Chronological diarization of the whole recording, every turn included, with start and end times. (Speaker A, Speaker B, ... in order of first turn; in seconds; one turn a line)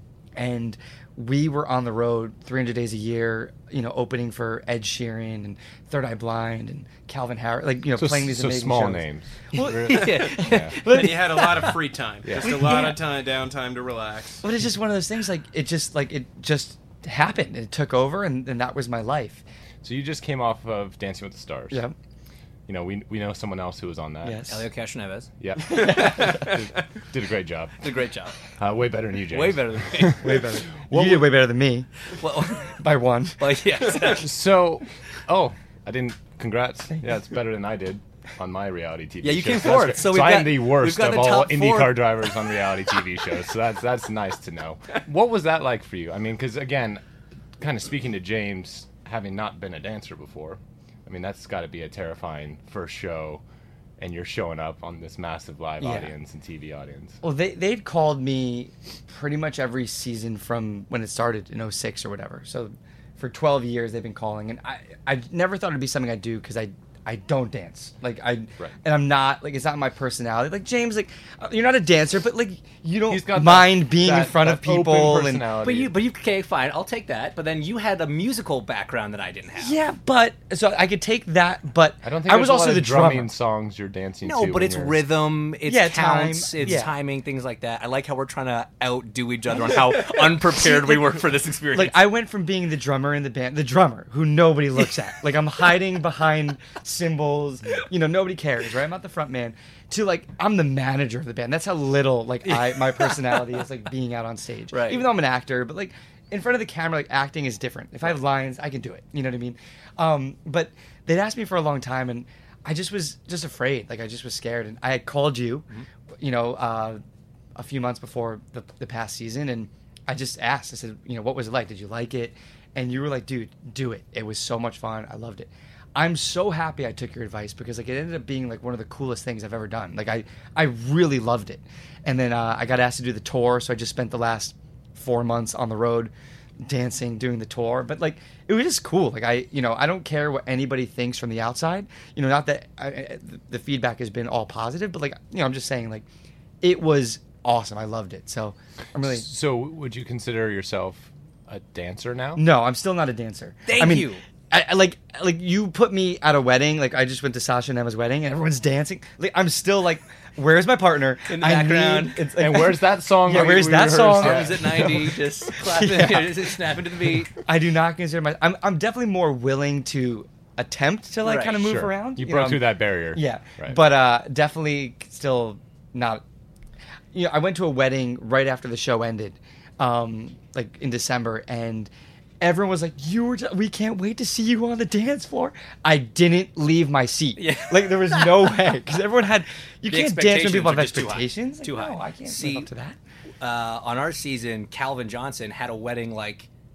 Speaker A: 0.4-11.7
Speaker B: 8.0-10.8
Speaker C: 9.9-11.4
Speaker D: 10.9-14.4
Speaker B: 12.2-12.9
Speaker A: 12.4-13.0
Speaker A: 14.4-19.4
Speaker B: 19.8-21.8
Speaker B: 22.7-24.5
Speaker A: 24.2-24.6
Speaker C: 24.5-25.3
Speaker B: 25.4-27.8
Speaker A: 25.6-26.5
Speaker C: 27.8-28.4
Speaker B: 28.6-30.4
Speaker C: 29.3-30.4
Speaker A: 30.2-31.9
Speaker C: 32.1-32.8
Speaker A: 32.6-34.2
Speaker C: 33.4-34.2
Speaker B: 34.1-47.0
Speaker C: 39.2-42.1
Speaker B: 47.6-53.4
Speaker B: 54.0-57.2
Speaker A: 55.8-56.1
Speaker A: 57.2-75.5
Speaker B: 73.1-75.9
Speaker C: 75.6-79.8
Speaker A: 79.6-83.3
Speaker B: 82.0-85.0
Speaker C: 84.2-92.0
Speaker A: 85.7-86.9
Speaker A: 89.7-91.2
Speaker A: 91.7-115.7
Speaker C: 102.5-103.2
Speaker C: 104.7-105.1
Speaker A: 116.2-117.0
Speaker A: 117.6-136.1
Speaker A: 136.6-146.1
Speaker A: 146.6-149.2
Speaker B: 149.0-152.4
Speaker A: 152.4-166.6
Speaker C: 153.7-154.2
Speaker C: 161.3-162.2
Speaker B: 162.4-165.1
Speaker C: 164.1-167.3
Speaker A: 167.3-176.2
Speaker C: 171.2-171.6
Speaker B: 171.6-173.8
Speaker A: 177.1-181.9
Speaker A: 182.4-193.0
Speaker C: 187.4-188.5
Speaker C: 189.9-192.7
Speaker C: 193.4-196.5